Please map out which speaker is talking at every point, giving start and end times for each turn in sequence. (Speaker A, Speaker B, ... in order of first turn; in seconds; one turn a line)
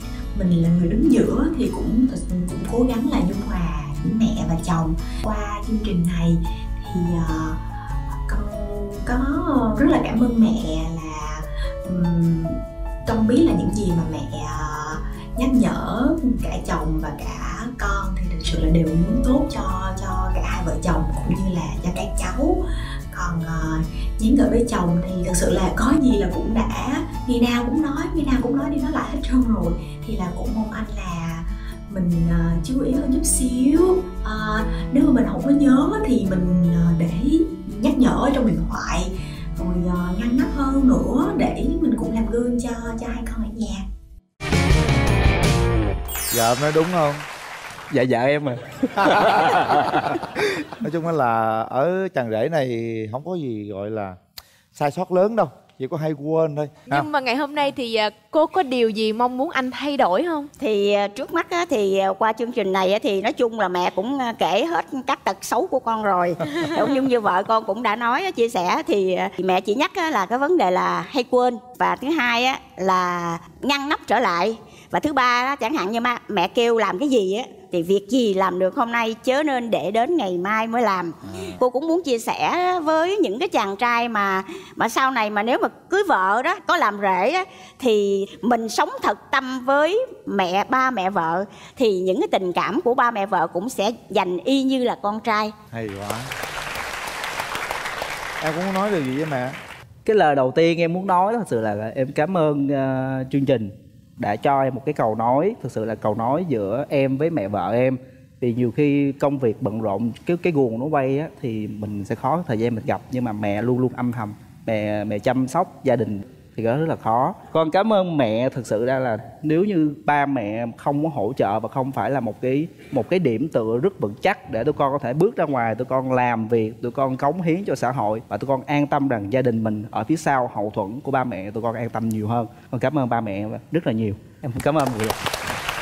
Speaker A: 0.3-7.6
Speaker A: 8.3-22.6
Speaker A: 23.1-43.8
Speaker B: 46.3-47.2
Speaker C: 47.9-50.4
Speaker B: 50.8-54.2
Speaker B: 54.7-57.1
Speaker D: 56.9-60.5
Speaker E: 60.6-95.5
Speaker B: 95.7-96.3
Speaker B: 98.4-99.5
Speaker C: 100.0-135.2